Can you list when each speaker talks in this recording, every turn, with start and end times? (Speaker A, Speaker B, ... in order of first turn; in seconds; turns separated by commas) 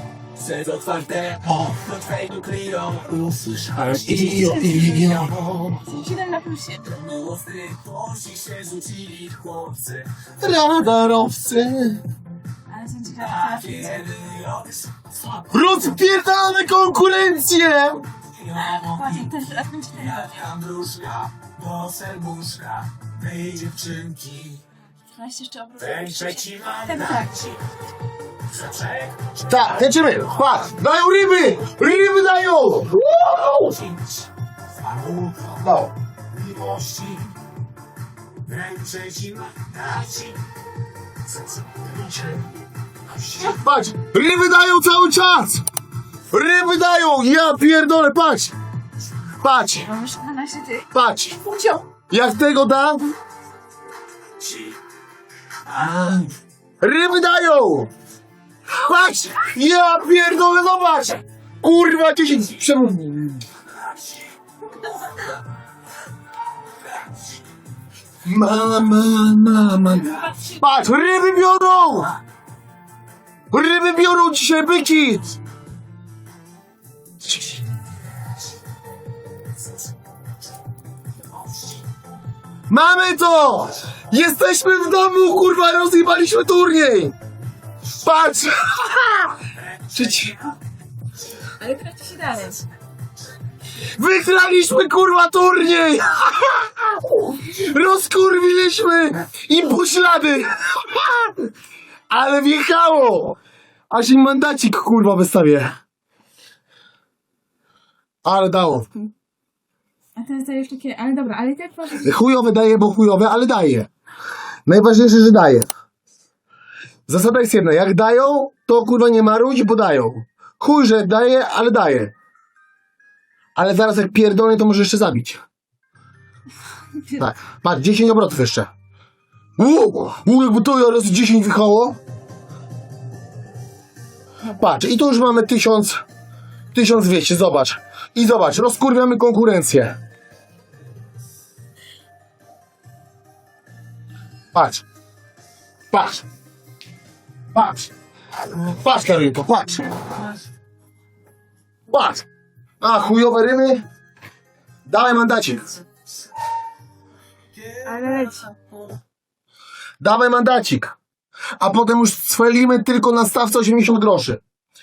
Speaker A: 0.4-5.7, Speaker B: 3.7-5.4, Speaker C: 4.4-4.9, Speaker C: 5.7-7.1, Speaker A: 7.0-10.2, Speaker B: 10.4-12.0, Speaker C: 12.7-14.1, Speaker A: 13.4-15.0, Speaker B: 15.4-18.1, Speaker C: 18.5-20.4, Speaker A: 18.6-19.1, Speaker A: 20.1-24.6, Speaker C: 25.1-27.4, Speaker A: 25.8-27.5, Speaker A: 28.5-29.4, Speaker B: 29.4-33.8, Speaker A: 33.5-34.0, Speaker A: 34.8-35.6, Speaker B: 35.5-35.9, Speaker A: 36.4-37.3, Speaker A: 38.5-40.3, Speaker B: 43.4-45.6, Speaker B: 46.3-48.5, Speaker B: 49.3-49.9, Speaker C: 49.8-50.9, Speaker B: 50.9-51.4, Speaker C: 51.4-51.8, Speaker B: 52.0-53.1, Speaker B: 55.7-57.9, Speaker B: 58.7-63.4, Speaker B: 68.2-72.1, Speaker B: 73.5-75.3, Speaker B: 77.2-77.6, Speaker B: 82.7-87.1, Speaker B: 88.0-90.4, Speaker C: 91.6-92.6, Speaker B: 93.9-101.5, Speaker B: 102.1-103.4, Speaker B: 103.9-105.8, Speaker B: 108.2-108.9, Speaker C: 110.2-112.1, Speaker B: 112.0-113.9, Speaker B: 114.7-115.7, Speaker B: 117.1-122.1, Speaker B: 123.5-125.4, Speaker B: 127.2-128.7, Speaker B: 129.6-132.0, Speaker B: 134.5-136.0, Speaker B: 136.7-140.0, Speaker B: 144.5-144.8, Speaker B: 145.9-146.2, Speaker B: 147.5-147.9, Speaker B: 148.5-149.9, Speaker B: 151.9-152.2, Speaker B: 152.8-153.8, Speaker B: 154.9-155.8, Speaker C: 157.8-158.5, Speaker A: 157.9-158.4, Speaker B: 160.0-161.0, Speaker B: 161.6-164.4